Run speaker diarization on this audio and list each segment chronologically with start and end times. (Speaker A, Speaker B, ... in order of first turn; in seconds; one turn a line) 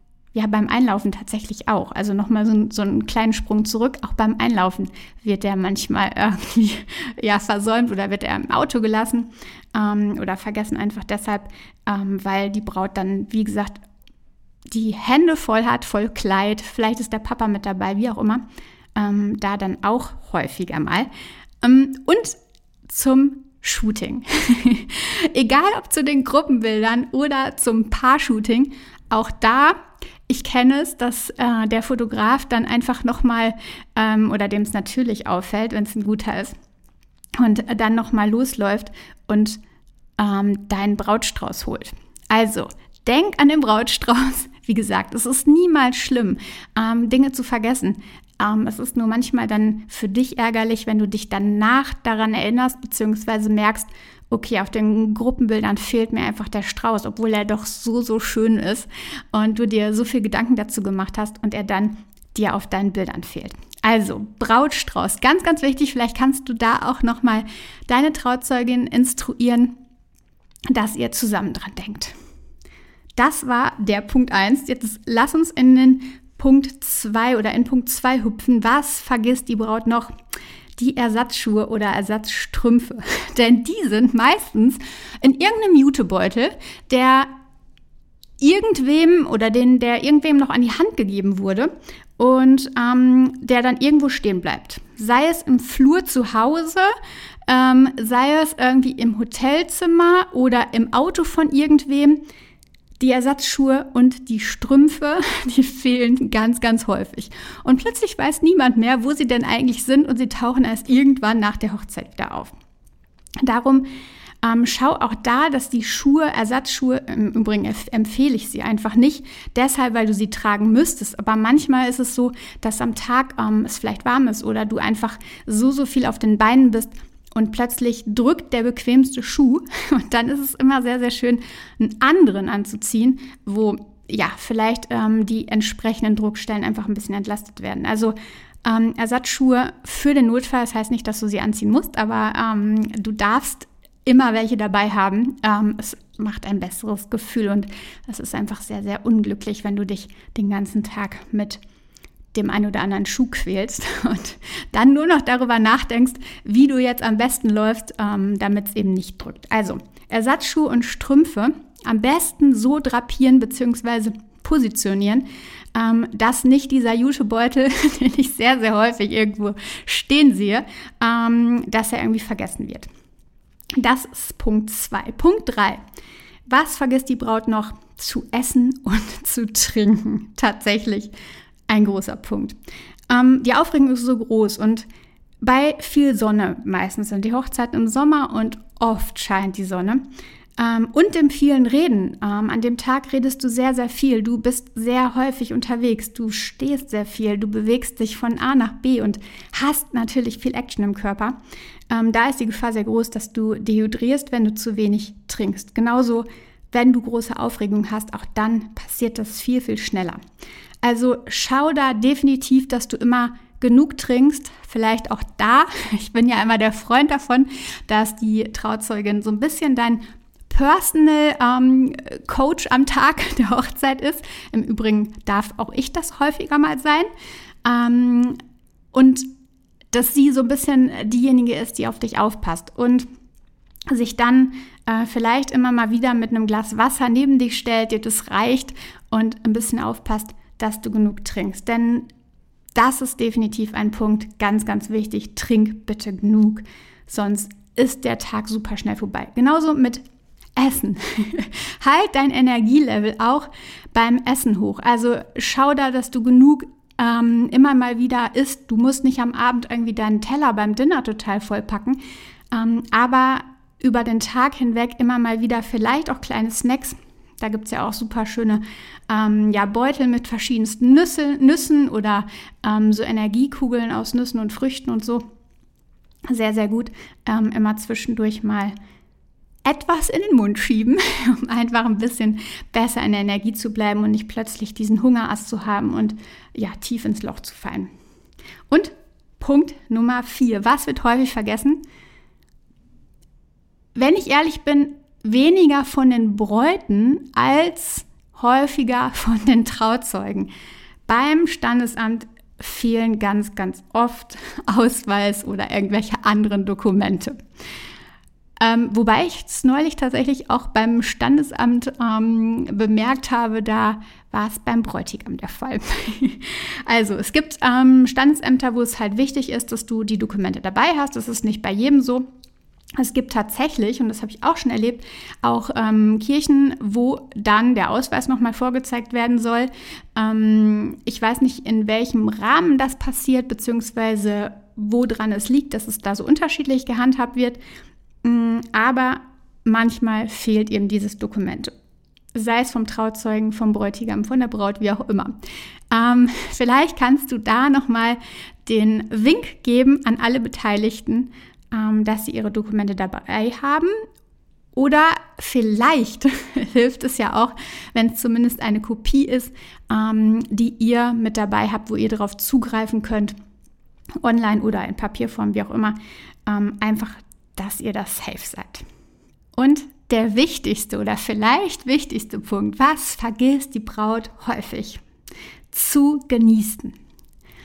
Speaker A: 0.3-13.8
Speaker A: 14.7-18.4
Speaker A: 18.9-21.1
Speaker A: 21.6-22.4
Speaker A: 22.9-36.5
Speaker A: 37.4-39.6
Speaker A: 40.2-69.8
Speaker A: 70.7-72.1
Speaker A: 73.2-80.1
Speaker A: 80.8-87.3
Speaker A: 88.4-96.9
Speaker A: 97.5-102.2
Speaker A: 103.0-112.5
Speaker A: 113.4-113.9
Speaker A: 114.4-151.6
Speaker A: 152.3-172.9
Speaker A: 173.8-175.8
Speaker A: 176.5-181.1
Speaker A: 181.7-182.6
Speaker A: 183.1-184.8
Speaker A: 185.4-190.0
Speaker A: 190.6-201.4
Speaker A: 201.9-210.2
Speaker A: 210.8-227.1
Speaker A: 227.6-228.4
Speaker A: 228.9-229.3
Speaker A: 229.9-233.1
Speaker A: 233.9-242.1
Speaker A: 242.7-250.0
Speaker A: 250.6-262.0
Speaker A: 262.5-275.2
Speaker A: 276.3-278.7
Speaker A: 279.6-287.9
Speaker A: 288.7-291.8
Speaker A: 293.9-300.5
Speaker A: 301.1-307.4
Speaker A: 308.6-322.2
Speaker A: 323.0-337.6
Speaker A: 338.2-341.7
Speaker A: 342.3-345.4
Speaker A: 345.9-353.9
Speaker A: 354.7-363.3
Speaker A: 364.2-368.8
Speaker A: 369.6-375.0
Speaker A: 375.7-376.9